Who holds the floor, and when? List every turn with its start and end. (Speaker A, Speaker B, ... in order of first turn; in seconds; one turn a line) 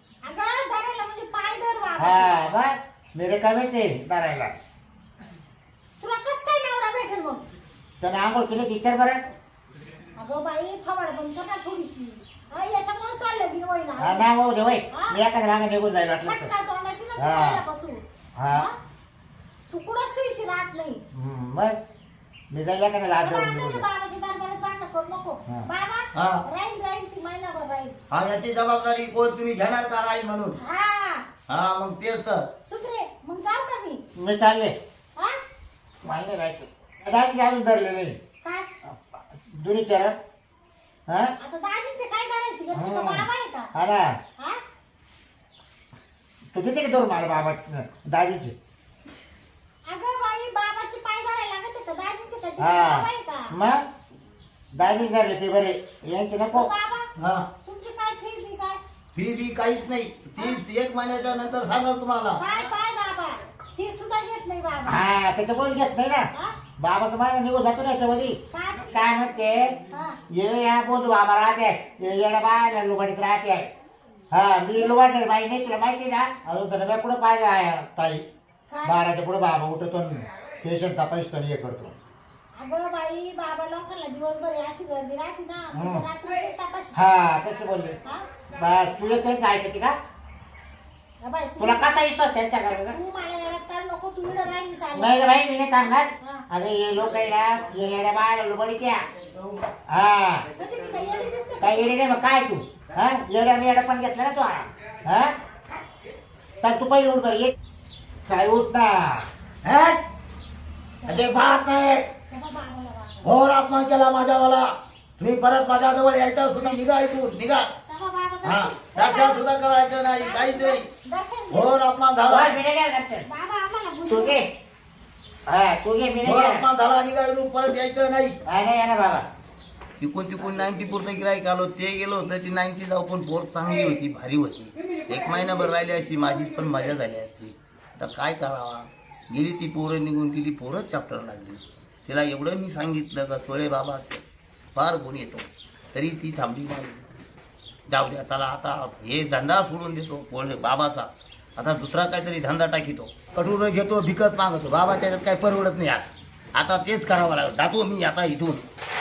Speaker A: 0.2-2.4
Speaker B: 2.0-4.5
Speaker A: 6.0-7.4
Speaker B: 8.0-9.2
Speaker A: 10.2-14.3
Speaker B: 14.0-16.5
Speaker A: 14.9-15.2
Speaker A: 16.2-18.8
Speaker B: 17.2-17.6
Speaker B: 18.4-18.7
Speaker A: 19.7-21.0
Speaker B: 21.1-21.8
Speaker B: 22.5-23.9
Speaker A: 23.2-28.0
Speaker C: 26.1-26.4
Speaker C: 28.1-30.6
Speaker A: 30.6-31.3
Speaker C: 31.5-32.5
Speaker A: 32.7-34.0
Speaker B: 34.1-34.8
Speaker B: 36.0-38.2
Speaker A: 38.4-38.7
Speaker B: 38.9-40.2
Speaker B: 41.1-41.3
Speaker A: 41.4-43.7
Speaker B: 42.7-44.2
Speaker B: 46.5-48.5
Speaker A: 49.9-53.5
Speaker B: 52.6-53.9
Speaker B: 54.7-56.7
Speaker A: 56.5-57.1
Speaker C: 57.2-57.5
Speaker A: 57.6-58.8
Speaker C: 59.2-62.4
Speaker A: 62.3-65.1
Speaker B: 64.9-69.8
Speaker A: 68.5-69.2
Speaker A: 69.9-70.2
Speaker B: 70.3-73.7
Speaker B: 74.3-78.2
Speaker A: 78.7-79.0
Speaker B: 78.8-82.0
Speaker A: 82.6-87.0
Speaker B: 85.7-86.1
Speaker B: 86.9-88.0
Speaker B: 88.6-90.0
Speaker A: 91.2-91.9
Speaker B: 91.6-93.0
Speaker A: 92.7-95.3
Speaker B: 95.0-99.0
Speaker A: 96.2-96.5
Speaker B: 99.9-100.5
Speaker A: 100.6-102.0
Speaker B: 101.6-105.3
Speaker B: 106.6-107.5
Speaker B: 108.3-109.3
Speaker C: 109.6-110.0
Speaker A: 111.0-111.3
Speaker B: 111.0-112.1
Speaker A: 112.3-113.3
Speaker C: 113.2-117.7
Speaker A: 117.9-119.5
Speaker C: 118.4-120.8
Speaker A: 120.2-121.8
Speaker C: 121.5-122.6
Speaker B: 122.3-123.3
Speaker A: 123.3-124.5
Speaker B: 124.1-124.5
Speaker B: 125.5-126.7
Speaker C: 126.2-128.4
Speaker B: 128.5-129.2
Speaker C: 130.0-144.2
Speaker C: 144.8-147.1
Speaker C: 147.9-158.7